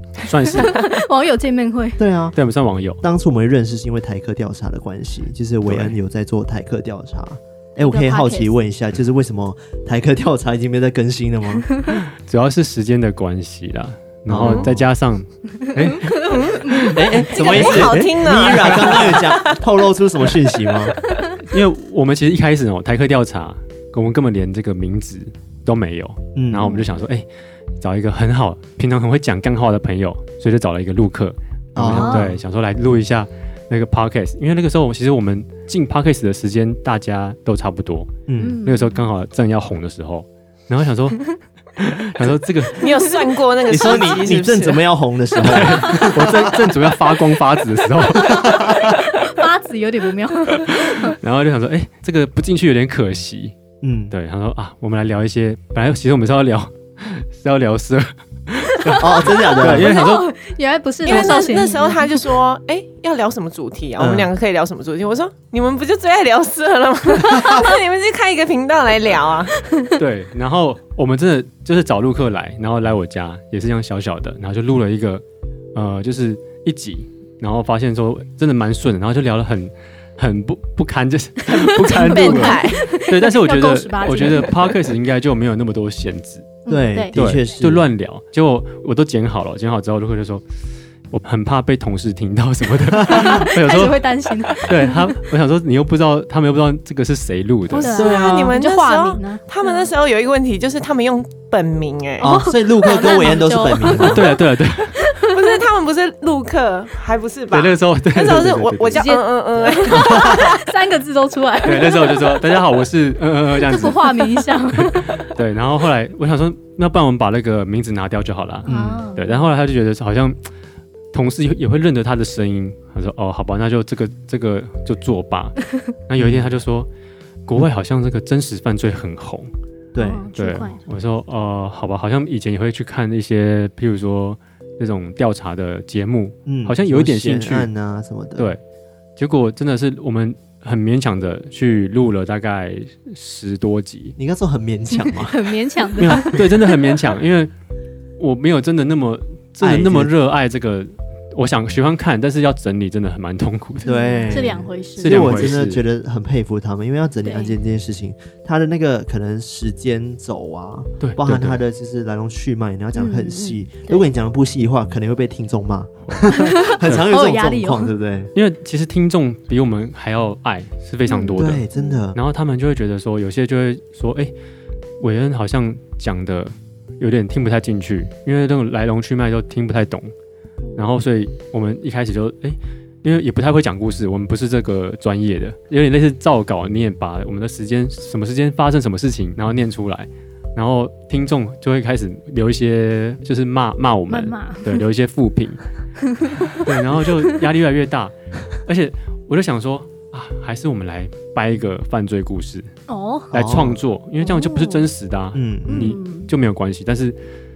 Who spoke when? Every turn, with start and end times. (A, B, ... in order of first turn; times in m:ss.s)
0:00.2-0:00.8 A
0:00.4-0:02.0 B
0:02.0-0:02.4 C
0:02.3-0:03.0 A
0:03.0-0:11.7 C
0:05.7-0:06.0 A
0:07.8-0:08.5 B
0:12.0-0:18.0 A
0:14.3-0:14.8 C
0:16.0-0:17.7 B
0:16.3-0:19.6 D
0:16.8-0:21.0 C
0:21.4-0:27.3 A
0:26.4-0:26.9 C
0:27.8-0:41.2 A
0:31.8-0:32.4 C
0:31.8-0:32.3 B
0:38.3-0:38.6 C
0:38.4-0:39.1 B
0:41.8-0:43.0 A
0:42.8-0:44.9 D
0:43.7-0:46.9 C
0:45.4-0:48.6 A
0:48.1-0:49.0 C
0:48.4-0:51.2 B
0:50.6-0:53.6 A
0:53.8-0:54.1 C
0:54.1-1:00.3 A
0:58.9-1:02.2 B
0:59.0-1:00.0 C
1:01.0-1:09.6 D
1:04.0-1:04.3 C
1:10.0-1:15.2 A
1:15.8-1:26.5 A
1:21.5-1:22.9 D
1:21.9-1:24.8 B
1:26.7-1:27.1 B
1:26.7-1:27.9 C
1:27.1-1:30.4 A
1:31.1-1:34.0 A
1:33.1-1:35.1 B
1:33.1-1:33.5 C
1:34.6-1:38.5 A
1:37.7-1:39.9 B
1:37.8-1:42.4 D
1:38.1-1:38.5 C
1:42.2-1:44.4 C
1:42.2-1:44.4 B
1:43.8-1:44.9 A
1:45.0-1:45.6 B
1:45.3-1:50.6 D
1:47.5-1:49.1 A
1:48.9-1:52.4 B
1:49.6-1:50.0 A
1:51.6-2:00.4 A
1:53.7-1:55.2 B
1:58.7-1:59.1 C
1:58.7-1:59.3 B
2:01.1-2:06.9 A
2:06.2-2:06.5 C
2:07.5-2:09.5 A
2:09.9-2:10.3 C
2:10.0-2:10.8 B
2:10.4-2:17.7 A
2:16.5-2:18.6 C
2:19.2-2:24.2 A
2:24.2-2:25.6 C
2:24.9-2:26.5 B
2:26.0-2:27.5 A
2:28.2-2:35.8 A
2:29.6-2:30.1 C
2:33.8-2:48.3 C
2:33.8-2:35.5 B
2:37.2-2:37.6 B
2:41.0-2:41.6 A
2:43.0-2:44.0 B
2:46.1-2:47.1 A
2:46.3-2:47.9 B
2:48.4-2:54.3 A
2:51.1-2:52.0 B
2:51.3-2:52.2 C
2:55.0-3:00.1 A
3:00.8-3:15.6 A
3:14.1-3:14.8 B
3:16.1-3:16.8 B
3:16.5-3:22.8 A
3:22.9-3:23.3 B
3:23.3-3:27.2 A
3:23.3-3:23.8 C
3:24.2-3:24.8 B
3:25.3-3:26.0 C
3:25.7-3:26.3 B